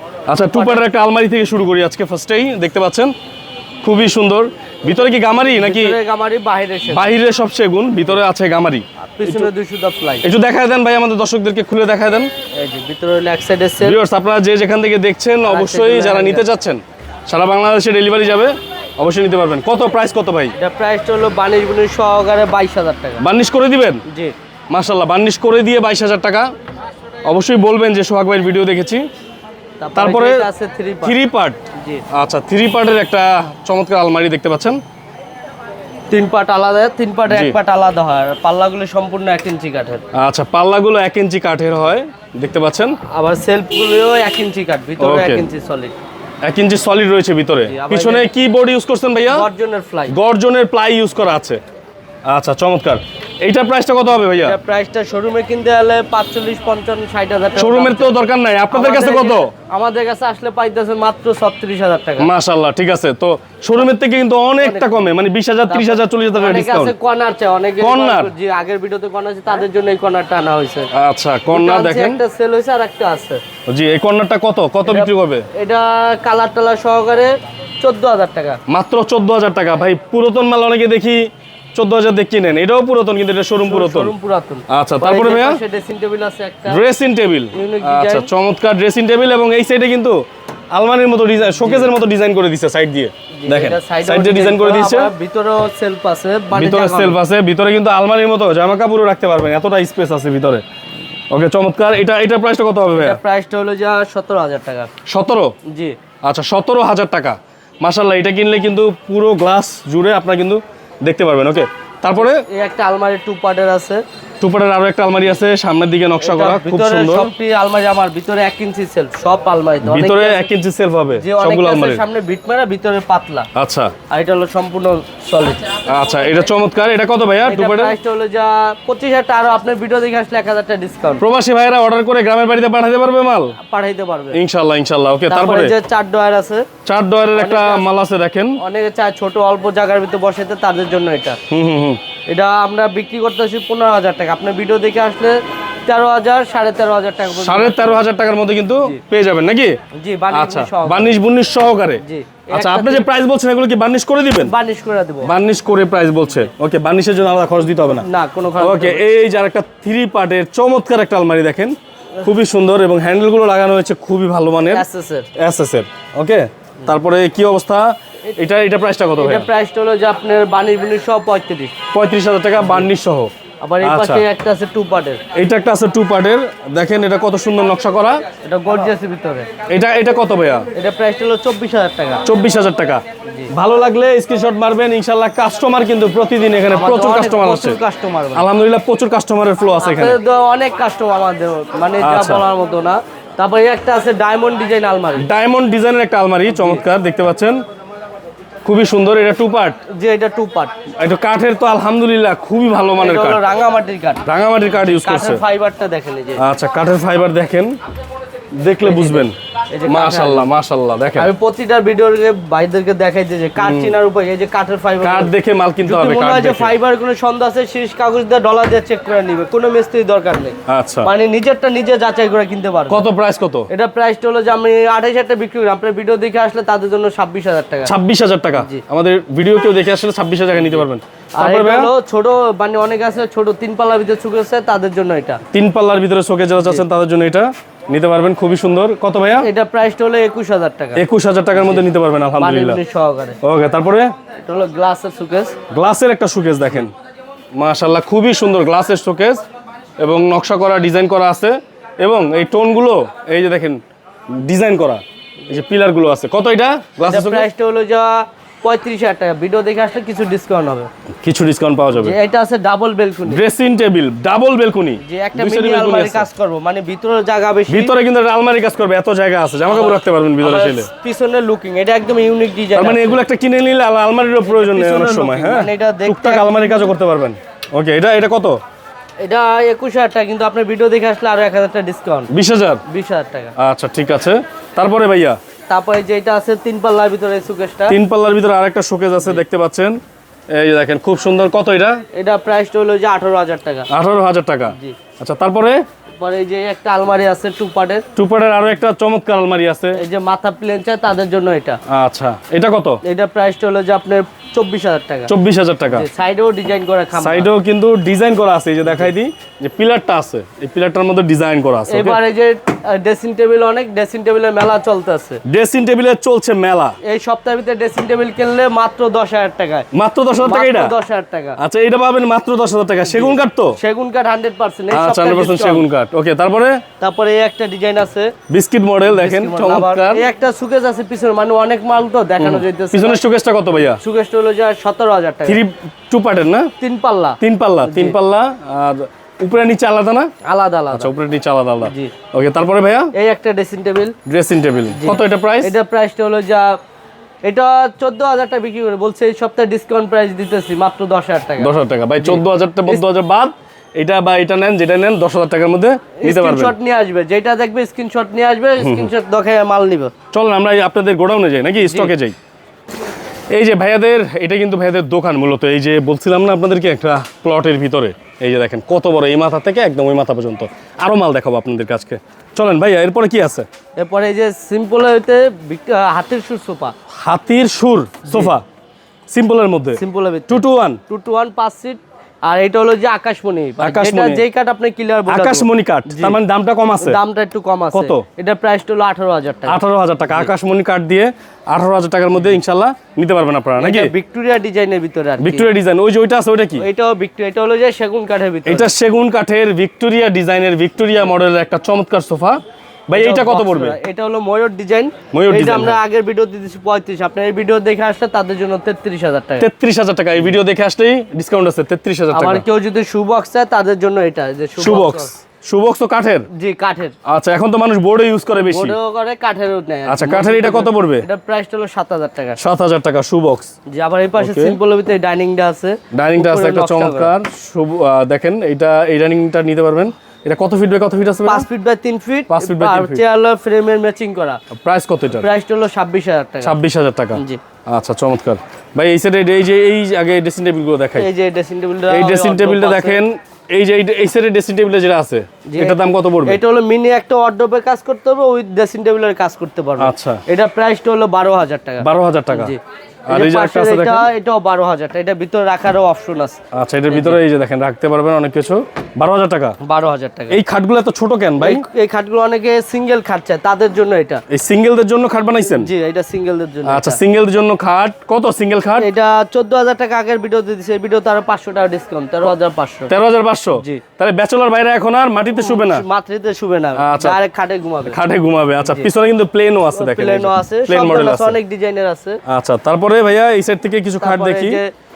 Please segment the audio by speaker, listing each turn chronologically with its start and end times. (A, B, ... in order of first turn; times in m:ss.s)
0:00.3-0:03.1 A
0:00.5-0:00.8 B
0:03.8-0:06.0 A
0:05.3-0:07.1 B
0:06.9-0:09.5 A
0:09.2-0:10.3 B
0:10.2-0:12.3 A
0:12.6-0:14.0 B
0:13.8-0:20.6 A
0:15.4-0:16.5 B
0:20.6-0:23.2 B
0:23.2-0:24.0 A
0:24.1-0:24.3 B
0:24.7-0:26.5 A
0:27.3-0:29.0 A
0:29.8-0:31.2 B
0:30.0-0:30.5 A
0:31.0-0:34.8 A
0:31.8-0:32.0 B
0:36.1-0:40.0 B
0:37.3-0:37.6 A
0:40.1-0:43.0 A
0:43.1-0:46.0 B
0:45.0-0:45.4 A
0:46.4-0:49.5 A
0:47.7-0:48.3 B
0:49.3-0:50.1 B
0:50.1-0:51.6 A
0:52.3-0:54.6 A
0:54.4-1:02.3 B
0:57.6-0:59.5 A
1:02.2-1:07.0 A
1:04.6-1:05.2 B
1:05.7-1:10.9 B
1:07.8-1:08.3 A
1:10.9-1:12.2 A
1:11.5-1:13.4 B
1:13.7-1:15.5 A
1:14.8-1:18.6 B
1:18.7-1:24.1 A
1:23.6-1:26.8 B
1:24.7-1:25.6 A
1:26.7-1:30.2 A
1:27.5-1:28.3 B
1:30.7-1:35.1 A
1:31.6-1:31.9 B
1:33.4-1:37.2 B
1:36.5-1:40.6 A
1:41.3-1:43.2 A
1:42.9-1:44.9 B
1:45.1-1:45.5 A
1:45.7-1:46.0 B
1:46.2-1:52.4 A
1:52.2-1:54.0 B
1:54.4-1:57.3 A
1:56.2-2:00.5 B
1:59.8-2:02.0 A
2:01.2-2:03.5 B
2:03.6-2:03.9 A
2:04.1-2:05.8 B
2:05.8-2:08.0 A
2:07.4-2:11.2 B
2:11.2-2:13.6 A
2:13.6-2:14.4 B
2:14.3-2:15.8 A
2:15.3-2:16.7 B
2:16.8-2:18.6 A
2:17.3-2:17.9 B
2:18.6-2:21.4 B
2:21.5-2:22.0 A
2:22.3-2:28.0 B
2:27.4-2:29.8 A
2:30.0-2:31.2 B
2:30.3-2:34.5 A
2:32.0-2:33.1 B
2:34.4-2:35.3 B
2:35.2-2:44.8 A
2:37.9-2:39.1 B
2:44.6-2:45.3 B
2:45.4-2:49.5 A
2:49.2-2:51.7 B
2:51.9-2:54.2 A
2:52.6-2:52.9 B
2:53.6-2:55.2 B
2:55.3-2:58.2 A
2:58.4-2:59.5 B
2:59.7-3:00.7 A
3:00.7-3:02.2 B
3:02.2-3:07.8 A
3:06.7-3:08.5 B
3:08.3-3:10.2 A
3:09.8-3:15.3 B
3:12.0-3:12.4 A
3:15.2-3:17.6 A
3:16.5-3:16.8 B
3:18.6-3:19.8 A
3:19.9-3:20.7 B
3:21.0-3:23.4 A
3:23.0-3:24.2 B
3:24.2-3:25.4 A
3:24.8-3:26.4 B
3:26.4-3:27.7 A
3:28.6-3:29.4 A
3:28.8-3:30.5 B
3:29.9-3:31.3 A
3:31.2-3:43.1 B
3:33.6-3:33.9 A
3:35.0-3:36.8 A
3:40.7-3:41.1 A
3:42.9-3:43.7 A
3:43.7-3:47.9 B
3:47.8-3:51.9 A
3:48.6-3:48.8 B
3:50.6-3:50.8 B
3:51.4-3:55.4 B
3:55.5-3:59.5 A
3:59.4-4:01.0 B
4:01.0-4:02.8 A
4:01.6-4:01.8 B
4:02.4-4:03.4 B
4:03.4-4:04.1 A
4:04.4-4:05.6 B
4:05.7-4:06.9 A
4:07.6-4:09.4 A
4:10.0-4:13.8 A
4:14.3-4:17.5 A
4:17.0-4:20.9 B
4:21.2-4:22.2 A
4:21.9-4:23.4 B
4:23.3-4:26.3 A
4:25.0-4:27.9 B
4:27.7-4:30.9 A
4:29.7-4:33.2 B
4:32.7-4:38.6 A
4:34.4-4:36.9 B
4:39.2-4:42.3 B
4:42.3-4:42.8 A
4:42.9-4:43.5 B
4:43.6-4:45.4 A
4:45.7-4:48.0 B
4:47.9-4:50.0 A
4:50.5-4:52.0 A
4:52.1-4:53.9 B
4:53.9-4:55.8 A
4:54.7-4:55.0 B
4:56.2-4:58.0 B
4:58.2-5:00.0 A
5:00.0-5:01.8 B
5:01.9-5:03.0 A
5:03.0-5:05.3 B
5:05.3-5:06.1 A
5:05.9-5:07.5 B
5:07.2-5:12.2 A
5:08.8-5:09.1 B
5:11.9-5:15.4 B
5:15.4-5:17.0 A
5:17.0-5:19.9 B
5:19.9-5:20.9 A
5:20.4-5:21.6 B
5:21.6-5:23.8 A
5:23.0-5:25.9 B
5:24.9-5:26.8 A
5:27.0-5:28.4 B
5:28.5-5:30.3 A
5:29.1-5:33.2 B
5:32.4-5:34.0 A
5:34.0-5:35.6 B
5:35.5-5:36.7 A
5:36.8-5:38.2 B
5:37.4-5:40.3 A
5:40.4-5:41.1 B
5:40.9-5:43.1 A
5:41.8-5:42.1 B
5:43.1-5:44.2 B
5:44.2-5:45.7 A
5:44.9-5:46.8 B
5:47.4-5:53.0 B
5:51.6-5:56.8 A
5:56.2-6:00.1 B
5:58.8-5:59.1 A
6:00.3-6:02.4 A
6:01.8-6:02.1 B
6:03.5-6:13.7 A
6:14.0-6:16.9 B
6:17.2-6:18.6 A
6:18.3-6:18.5 B
6:19.3-6:21.0 A
6:20.0-6:26.4 B
6:23.8-6:24.4 A
6:25.3-6:27.2 A
6:27.0-6:29.8 B
6:27.9-6:28.2 A
6:29.7-6:34.1 A
6:33.8-6:35.7 B
6:35.4-6:36.9 A
6:36.8-6:38.9 B
6:38.7-6:44.0 A
6:43.1-6:49.7 B
6:45.3-6:46.0 A
6:49.6-6:52.6 A
6:52.3-6:55.3 B
6:54.8-6:56.5 A
6:56.5-6:57.2 B
6:57.3-6:59.0 A
6:58.6-7:02.6 B
7:00.1-7:01.3 A
7:02.6-7:03.7 A
7:03.9-7:07.3 B
7:04.4-7:04.8 A
7:06.1-7:11.7 A
7:11.4-7:14.6 B
7:12.5-7:13.2 A
7:14.8-7:15.5 A
7:15.3-7:16.8 B
7:16.6-7:21.3 A
7:17.4-7:17.6 B
7:21.2-7:23.2 B
7:22.1-7:26.6 A
7:25.7-7:32.8 B
7:30.0-7:30.4 A
7:32.0-7:32.8 A
7:33.3-7:34.3 A
7:33.3-7:37.4 B
7:36.7-7:39.8 A
7:39.8-7:40.6 B
7:40.5-7:41.8 A
7:41.6-7:44.4 B
7:44.5-7:45.9 A
7:45.8-7:47.2 B
7:46.8-7:49.1 A
7:49.0-7:53.1 B
7:53.1-7:56.0 A
7:53.7-7:54.0 B
7:55.5-7:58.2 B
7:57.0-7:57.4 A
7:58.1-8:01.6 A
7:58.8-7:59.1 B
7:59.9-8:02.4 B
8:02.5-8:04.8 A
8:04.2-8:04.9 B